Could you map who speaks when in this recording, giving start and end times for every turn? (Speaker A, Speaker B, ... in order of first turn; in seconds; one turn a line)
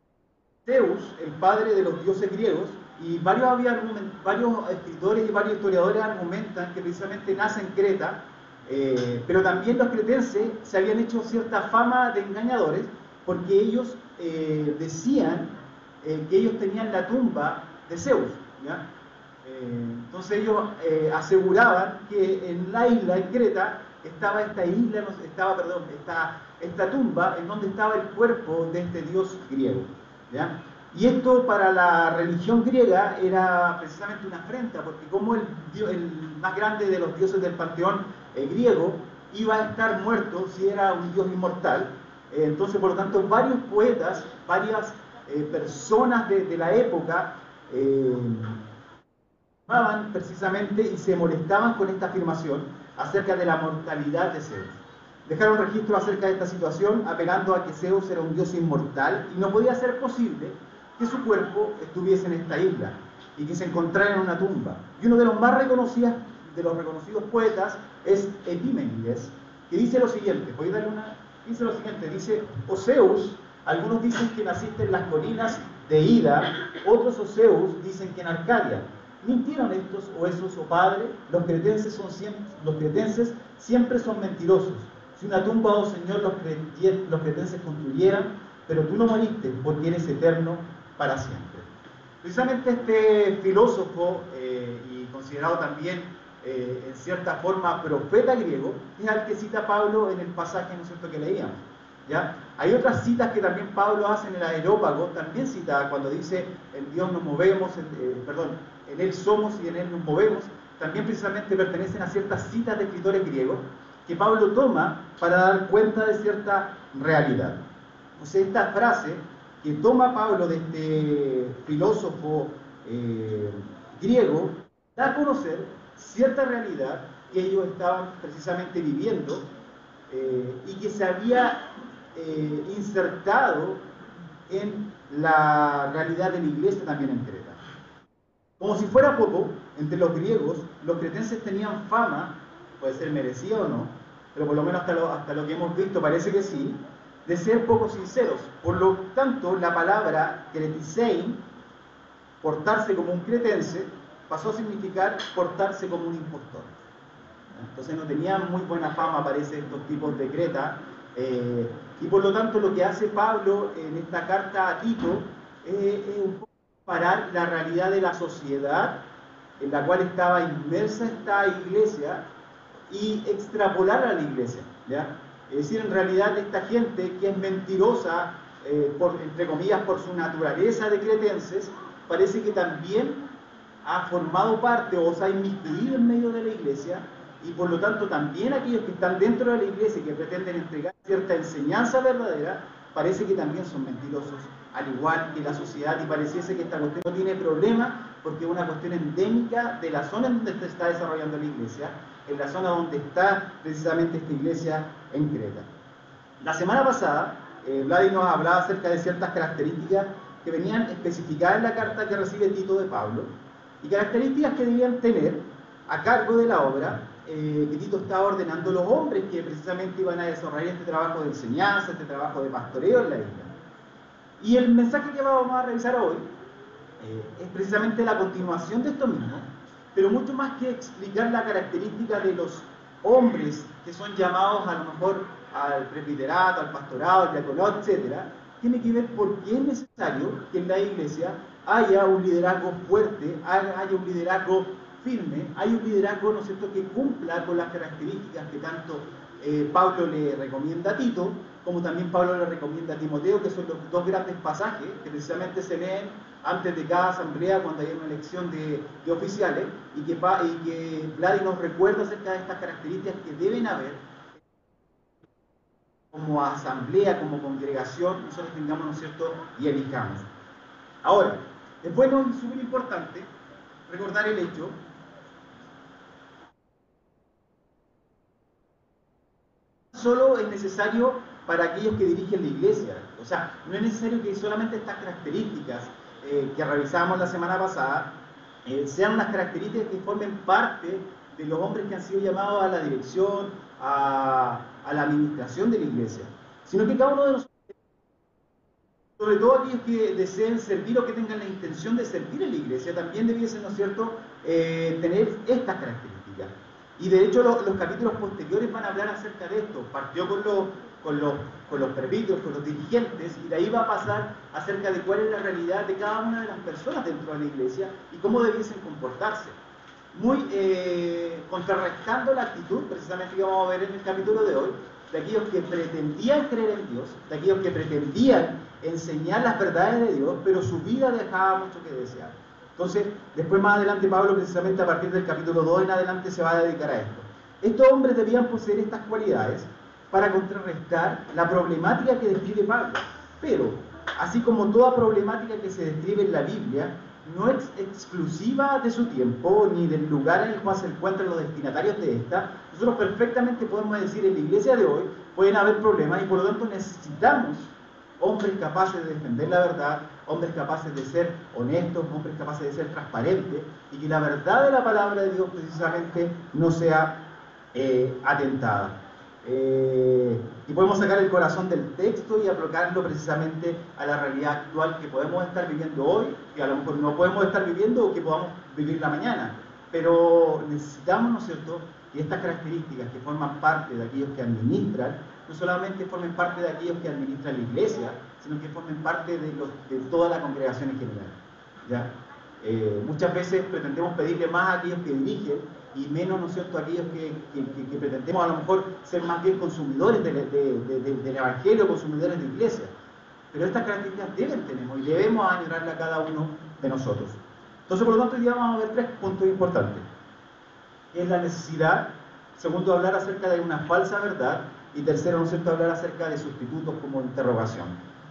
Speaker A: 0.7-18.9
Speaker A: 19.4-48.6
Speaker A: 49.7-91.7
Speaker A: 92.2-117.6
Speaker A: 118.2-129.5
Speaker A: 130.1-133.8
Speaker A: 134.5-137.6
Speaker A: 138.6-151.4
Speaker A: 152.4-156.7
Speaker A: 157.6-169.0
Speaker A: 169.6-172.2
Speaker A: 172.9-183.2
Speaker A: 183.8-205.7
Speaker A: 206.4-213.3
Speaker A: 213.8-223.5
Speaker A: 224.4-226.2
Speaker A: 227.0-264.0
Speaker A: 266.1-270.3
Speaker A: 271.0-273.3
Speaker A: 273.9-274.8
Speaker A: 279.9-288.1
Speaker A: 288.6-297.6
Speaker A: 299.2-319.6
Speaker A: 320.1-367.2
Speaker A: 367.7-392.1
Speaker A: 392.6-402.9
Speaker A: 403.5-410.0
Speaker A: 411.1-417.9